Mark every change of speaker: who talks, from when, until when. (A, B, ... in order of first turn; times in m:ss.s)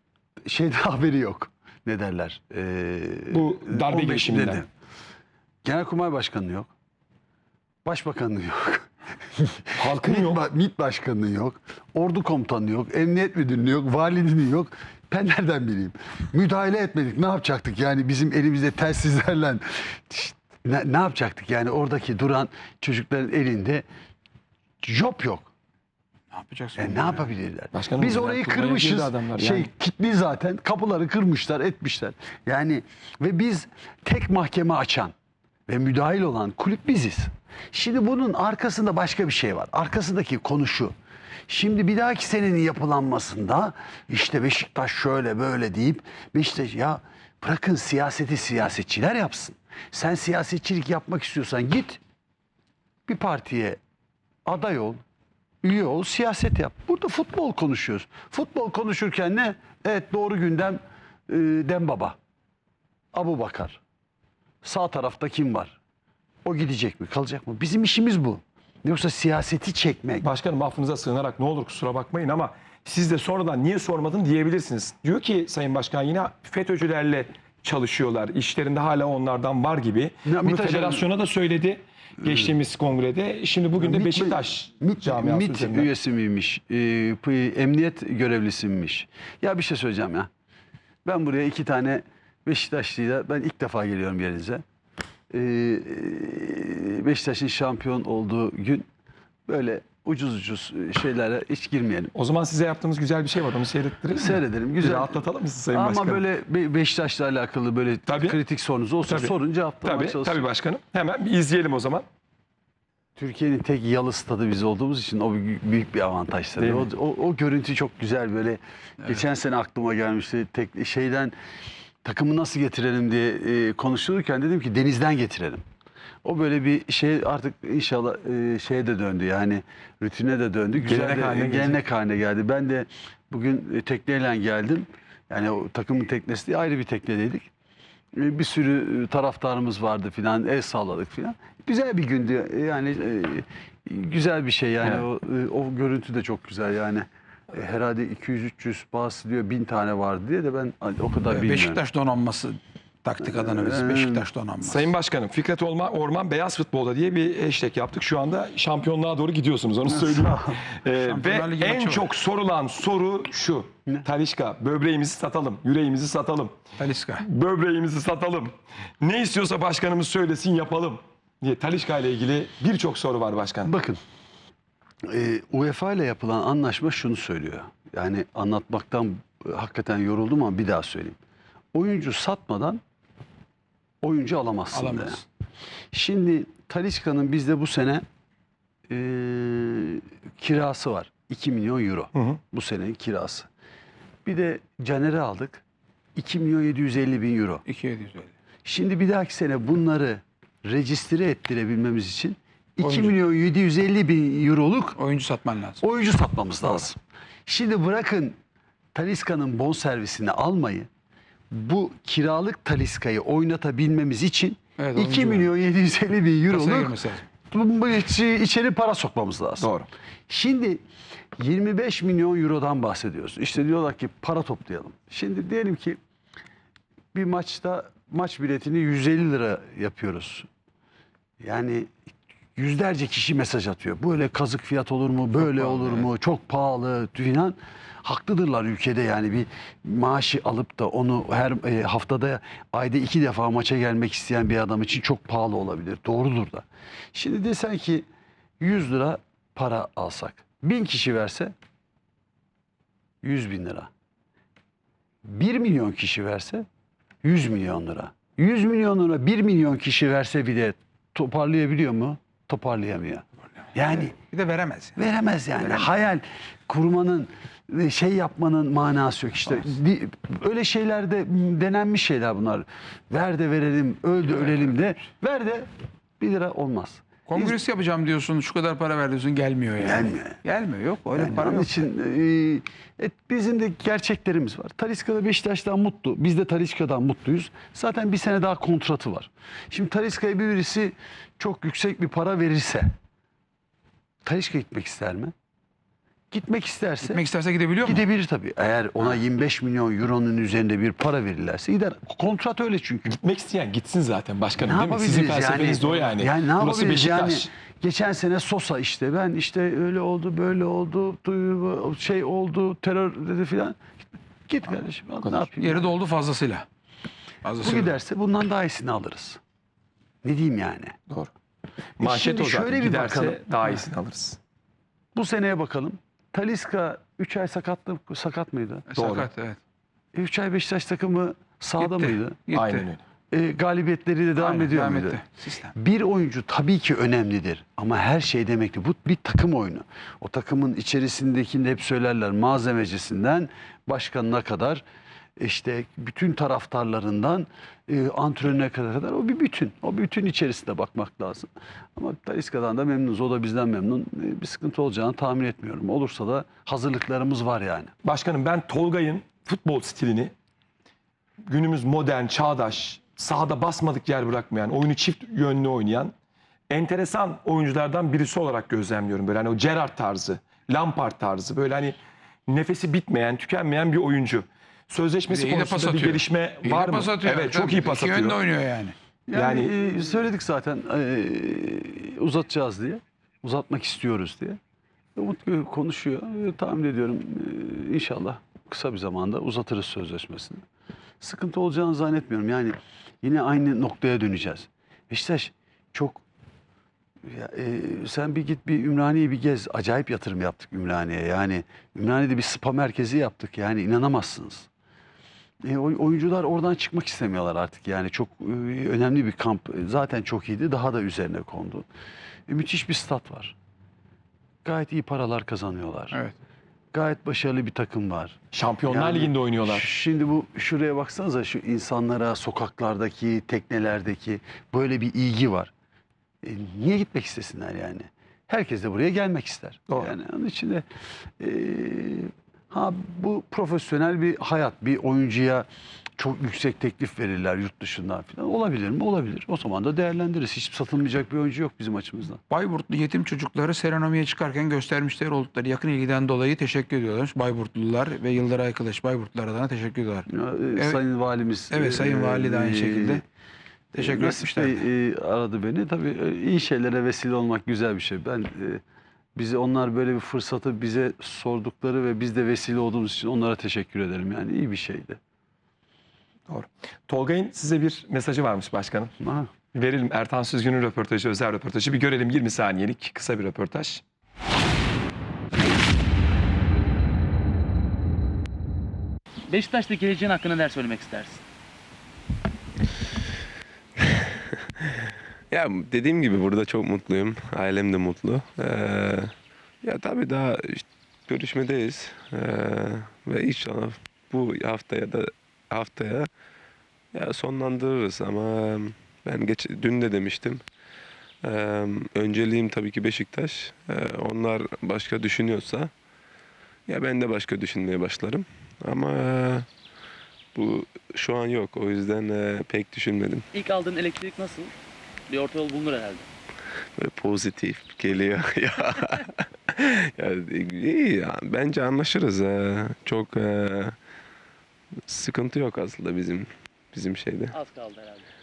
0:00.4-0:04.7 A
0:03.3-0:04.6 B
0:05.6-0:06.7 A
0:07.8-0:23.8 A
0:09.8-0:10.4 B
0:24.8-0:25.5 A
0:26.3-0:27.3 C
0:26.8-0:35.1 A
0:27.7-0:29.7 B
0:35.7-0:40.9 A
0:41.5-0:52.0 A
0:53.1-0:53.8 A
0:54.4-0:55.0 A
0:55.6-1:02.2 A
1:03.1-1:03.8 A
1:04.6-1:05.8 A
1:06.4-1:10.2 A
1:10.2-1:25.9 B
1:20.2-1:21.1 A
1:22.2-1:22.5 A
1:23.8-1:30.3 A
1:31.0-1:34.6 A
1:35.3-1:38.9 A
1:39.5-1:42.1 A
1:42.1-1:46.2 B
1:44.1-1:50.4 A
1:48.1-1:48.4 B
1:49.0-1:52.0 B
1:53.2-2:01.3 A
1:56.6-1:56.9 B
2:02.0-2:05.6 A
2:06.2-2:17.5 A
2:10.8-2:11.8 B
2:18.1-2:31.8 A
2:31.3-2:34.9 C
2:33.2-2:34.2 A
2:34.6-2:46.6 B
2:39.8-2:40.6 A
2:41.0-2:42.1 C
2:46.8-2:47.2 C
2:47.2-2:53.7 B
2:53.6-2:54.0 A
2:55.0-3:01.2 A
3:01.7-3:02.8 A
3:04.0-3:05.2 A
3:04.7-3:05.2 C
3:05.9-3:08.0 A
3:08.9-3:13.5 A
3:12.1-3:12.4 B
3:14.2-3:15.6 A
3:16.2-3:17.6 A
3:17.6-3:18.3 C
3:18.6-3:25.0 A
3:22.8-3:23.2 C
3:25.0-3:25.8 C
3:25.8-3:28.4 A
3:28.9-3:30.9 A
3:31.5-3:37.0 A
3:34.8-3:35.5 C
3:36.5-3:37.2 C
3:37.5-3:39.7 A
3:39.6-3:39.9 B
3:40.3-3:40.8 A
3:41.4-3:46.0 A
3:47.1-3:50.5 A
3:51.4-3:51.9 A
3:52.6-4:08.0 A
3:55.5-3:56.0 C
4:08.6-4:11.5 A
4:13.2-4:13.9 A
4:15.2-4:16.6 A
4:17.2-4:24.1 A
4:24.0-4:25.0 C
4:25.0-4:35.7 A
4:34.4-4:34.7 C
4:36.2-4:37.6 A
4:37.3-4:41.8 C
4:39.8-4:40.4 A
4:41.1-4:52.9 A
4:54.2-4:55.3 A
4:56.3-4:57.2 A
4:57.0-4:58.0 C
4:57.8-5:03.1 A
5:03.0-5:07.5 B
5:04.6-5:13.8 A
5:14.5-5:15.9 A
5:15.6-5:16.6 C
5:17.4-5:18.0 C
5:17.6-5:19.4 A
5:20.2-5:21.0 A
5:22.0-5:24.4 B
5:22.0-5:23.4 A
5:25.1-5:28.8 A
5:28.9-5:29.6 C
5:29.0-5:29.3 B
5:30.1-5:32.4 A
5:31.8-5:32.8 C
5:32.5-5:33.0 B
5:33.3-5:35.2 A
5:34.4-5:35.7 C
5:35.7-5:44.8 A
5:45.4-5:57.9 A
5:58.0-6:00.3 B
6:01.4-6:06.1 B
6:06.7-6:12.0 B
6:12.5-6:18.4 B
6:15.3-6:19.0 C
6:19.3-6:24.6 A
6:19.3-6:19.7 B
6:25.2-6:30.6 A
6:31.2-6:36.2 A
6:37.2-6:44.7 A
6:45.6-6:51.8 A
6:52.5-6:53.5 A
6:54.6-6:56.2 A
6:56.9-7:05.7 A
6:58.5-6:59.9 B
7:06.4-7:10.8 A
7:11.4-7:15.7 A
7:16.2-7:22.4 A
7:22.5-7:31.0 C
7:30.3-7:33.2 A
7:31.7-7:33.2 C
7:33.9-7:38.8 A
7:34.0-7:34.8 C
7:39.3-7:45.2 A
7:46.5-7:49.1 B
7:49.2-7:49.5 A
7:49.7-7:54.0 B
7:59.5-8:01.4 D
8:04.0-8:04.4 E
8:05.5-8:16.3 E
8:17.1-8:20.6 E
8:21.4-8:25.9 E
8:26.9-8:29.7 E
8:30.5-8:33.5 E
8:33.5-8:34.7 D
8:35.3-8:36.3 D
8:37.0-8:44.0 E
8:45.1-8:47.6 E
8:47.5-8:48.2 D